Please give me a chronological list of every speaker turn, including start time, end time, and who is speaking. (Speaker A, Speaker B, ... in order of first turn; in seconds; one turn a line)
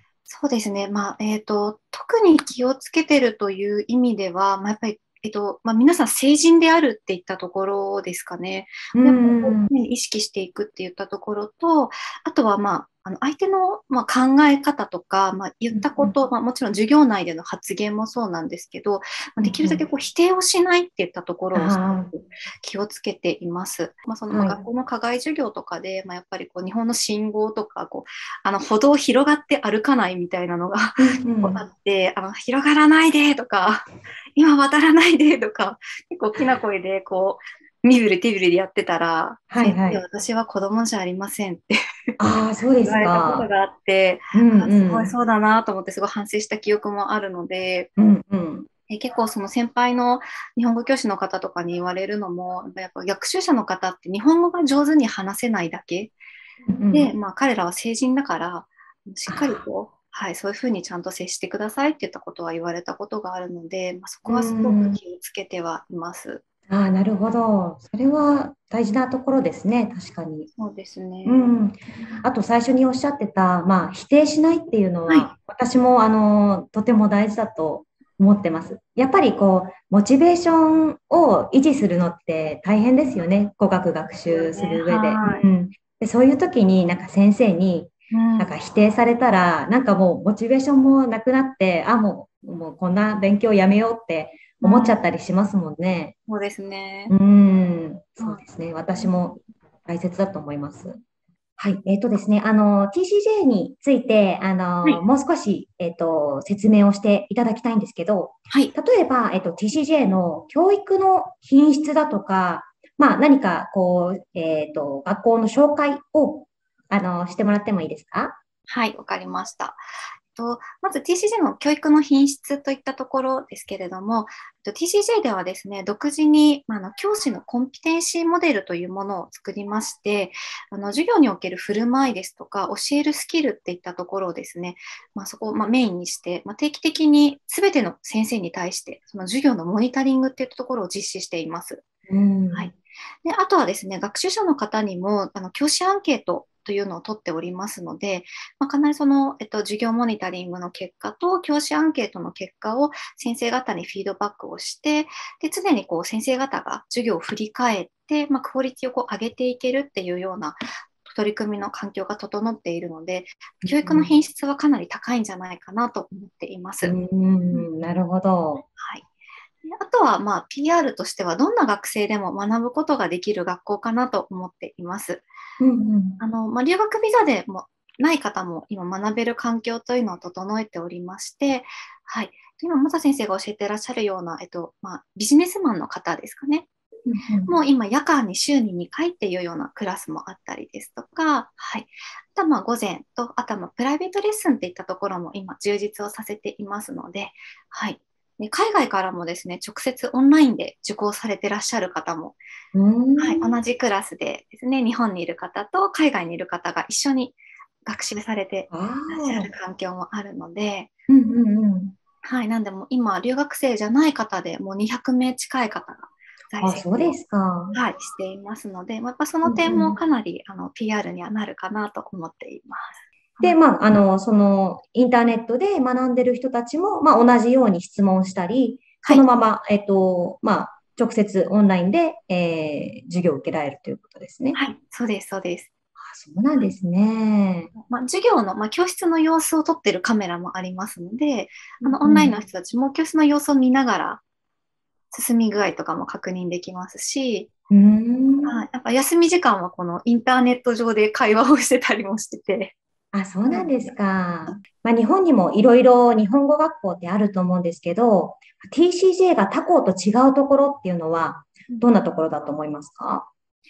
Speaker A: 0.3-41.8
Speaker B: 8.9-9.7
Speaker B: 15.7-16.1
Speaker B: 19.4-19.8
Speaker B: 21.5-22.1
Speaker B: 24.3-24.6
Speaker B: 31.0-31.6
Speaker B: 39.5-40.0
Speaker B: 42.2-43.5
Speaker A: 42.8-47.9
Speaker B: 44.3-45.1
Speaker B: 48.0-48.7
Speaker A: 48.9-56.2
Speaker B: 56.7-57.1
Speaker A: 56.9-66.4
Speaker B: 59.3-59.6
Speaker B: 64.3-65.0
Speaker B: 66.7-70.5
Speaker A: 70.6-71.5
Speaker B: 71.2-96.2
Speaker A: 84.3-85.4
Speaker A: 88.1-88.5
Speaker A: 94.6-95.0
Speaker A: 96.3-97.1
Speaker B: 97.1-101.0
Speaker A: 99.0-99.2
Speaker B: 101.6-118.4
Speaker A: 108.5-108.8
Speaker A: 118.7-119.8
Speaker A: 120.3-141.8
Speaker B: 142.1-142.7
Speaker A: 142.5-166.9
Speaker B: 163.7-164.2
Speaker B: 166.8-168.7
Speaker A: 168.8-169.1
Speaker A: 169.7-175.3
Speaker B: 175.6-176.2
Speaker A: 176.2-186.7
Speaker B: 187.1-187.5
Speaker A: 187.5-202.4
Speaker B: 202.7-203.5
Speaker A: 203.2-210.9
Speaker B: 208.7-209.5
Speaker B: 211.1-211.9
Speaker A: 212.2-217.2
Speaker B: 216.6-217.8
Speaker A: 217.7-223.6
Speaker B: 219.4-220.0
Speaker B: 223.4-234.6
Speaker A: 234.6-235.7
Speaker B: 236.0-237.7
Speaker A: 237.8-244.2
Speaker B: 241.8-242.4
Speaker A: 245.1-247.5
Speaker B: 247.7-248.6
Speaker A: 248.4-252.8
Speaker B: 253.1-263.3
Speaker A: 253.5-253.9